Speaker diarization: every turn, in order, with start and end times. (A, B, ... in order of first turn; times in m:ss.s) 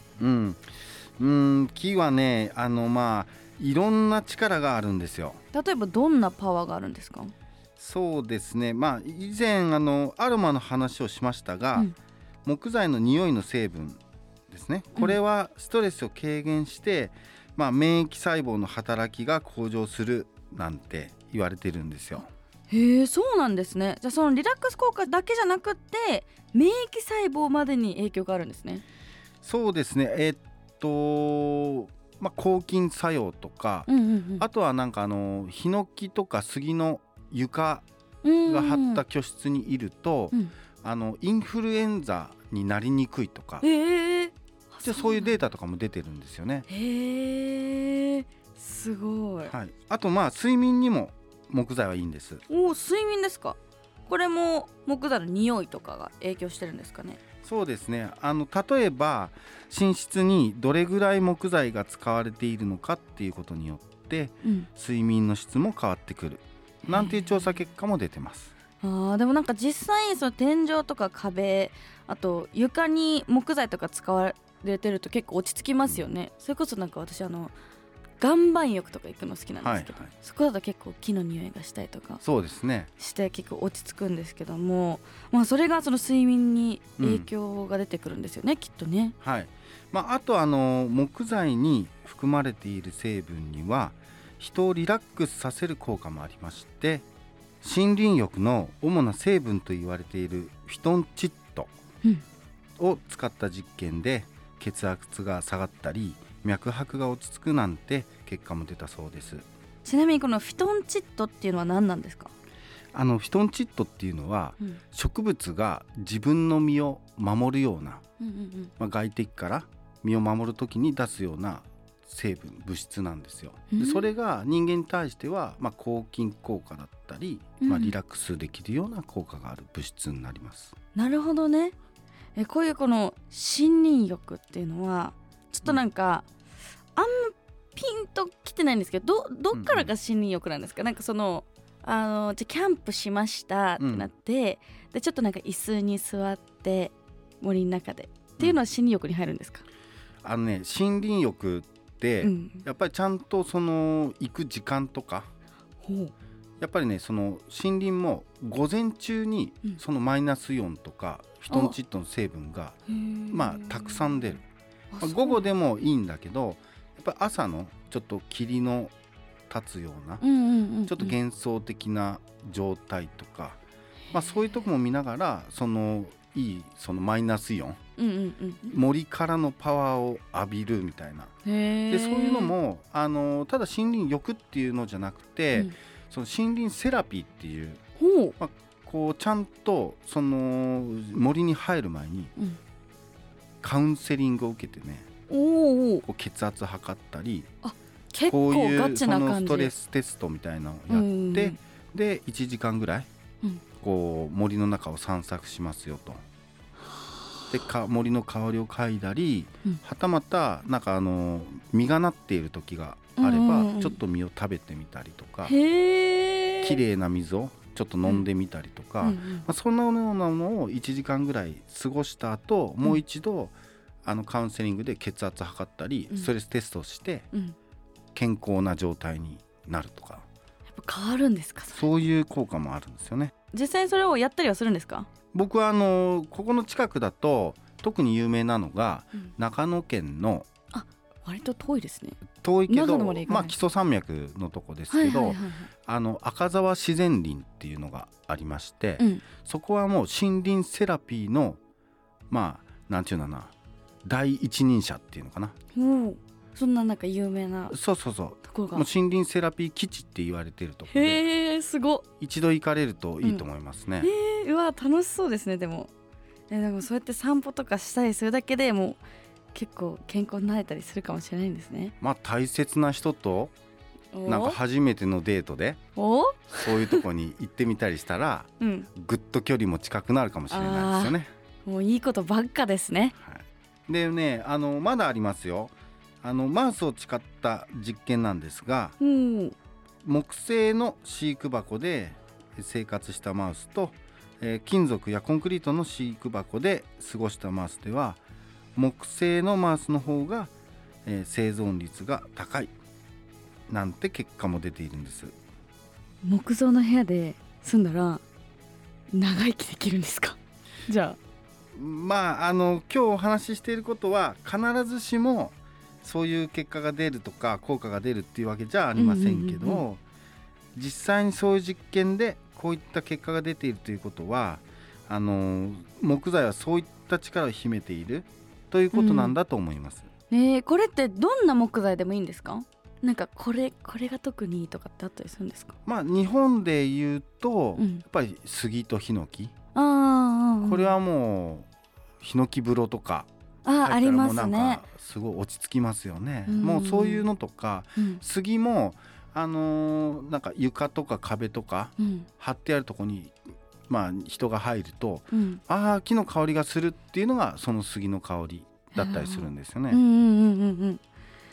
0:00.2-0:05.4 A
0:05.5-0:07.3 B
0:07.8-0:11.9 A
0:12.4-0:22.3 A
0:22.7-0:28.8 B
0:29.4-0:37.8 A
0:33.9-0:34.5 B
0:38.2-0:39.0 B
0:38.5-0:43.7 A
0:43.6-0:45.4 B
0:44.8-0:46.7 A
0:46.7-0:49.5 B
0:49.4-0:52.4 A
0:52.5-0:57.2 B
0:57.4-1:08.5 A
1:04.4-1:04.7 B
1:06.9-1:07.2 B
1:08.8-1:17.6 B
1:18.2-1:22.2 B
1:19.6-1:20.1 A
1:22.2-1:22.9 A
1:23.0-1:29.2 B
1:27.0-1:27.3 A
1:29.2-1:37.1 A
1:37.6-1:41.7 A
1:42.8-1:49.4 A
1:49.8-1:52.3 B
1:52.9-1:58.0 A
1:58.2-1:58.7 B
1:58.8-2:10.8 A
2:03.7-2:04.1 B
2:07.6-2:07.9 B
2:11.0-2:11.8 B
2:12.4-2:16.3 B
2:17.0-2:29.6 B
2:19.5-2:19.9 A
2:23.8-2:24.1 A
2:30.2-2:35.3 A
2:32.2-2:32.6 B
2:35.8-2:36.1 B
2:36.6-2:42.8 A
2:41.5-2:41.8 B
2:42.9-2:44.2 B
2:43.3-2:44.4 A
2:44.9-2:45.4 B
2:45.0-2:48.9 A
2:49.5-2:50.2 A
2:50.2-2:51.2 B
2:50.9-2:53.6 A
2:54.1-2:57.8 A
2:58.0-2:58.6 B
2:58.6-3:01.3 A
3:01.4-3:02.6 B
3:01.9-3:07.8 A
3:08.0-3:08.4 B
3:08.4-3:12.3 A
3:13.6-3:15.1 A
3:15.3-3:16.1 B
3:16.1-3:17.5 A
3:17.6-3:19.7 B
3:18.3-3:23.1 A
3:20.9-3:21.6 B
3:23.8-3:26.2 A
3:27.5-3:35.6 A
3:33.2-3:34.0 B
3:35.4-3:36.8 B
3:36.6-3:47.3 A
3:39.0-3:39.5 B
3:48.2-3:50.3 A
3:50.7-3:51.9 B
3:51.7-3:53.3 A
3:53.5-3:55.1 B
3:55.3-4:00.5 A
4:00.7-4:03.6 B
4:02.4-4:11.6 A
4:04.9-4:05.7 B
4:09.0-4:09.2 B
4:12.3-4:13.5 A
4:14.0-4:15.6 A
4:15.7-4:17.8 B
4:17.7-4:21.2 A
4:18.4-4:18.9 B
4:20.9-4:22.0 B
4:22.2-4:24.1 A
4:24.0-4:25.9 B
4:26.5-4:29.0 B
4:29.5-4:31.9 B
4:32.0-4:33.5 A
4:34.1-4:34.6 B
4:34.3-4:35.8 A
4:36.0-4:37.0 B
4:36.6-4:41.3 A
4:38.6-4:38.9 B
4:40.5-4:43.1 B
4:43.2-4:49.0 A
4:49.0-4:49.6 B
4:50.0-4:58.2 A
4:58.8-5:00.5 A
5:01.1-5:02.7 A
5:03.7-5:05.4 A
5:06.2-5:08.2 B
5:09.1-5:11.2 B
5:11.8-5:20.0 A
5:19.0-5:19.8 B
5:20.8-5:30.1 A
5:28.9-5:29.4 B
5:30.3-5:35.8 B
5:35.9-5:39.5 A
5:37.8-5:38.0 B
5:39.8-5:40.9 B
5:40.6-5:41.7 A
5:42.2-5:43.3 A
5:43.6-5:44.8 B
5:43.8-6:00.0 A
5:46.5-5:47.2 B
5:48.0-5:48.2 B
5:52.0-5:52.3 B
5:55.3-5:55.6 B
5:58.9-6:01.0 B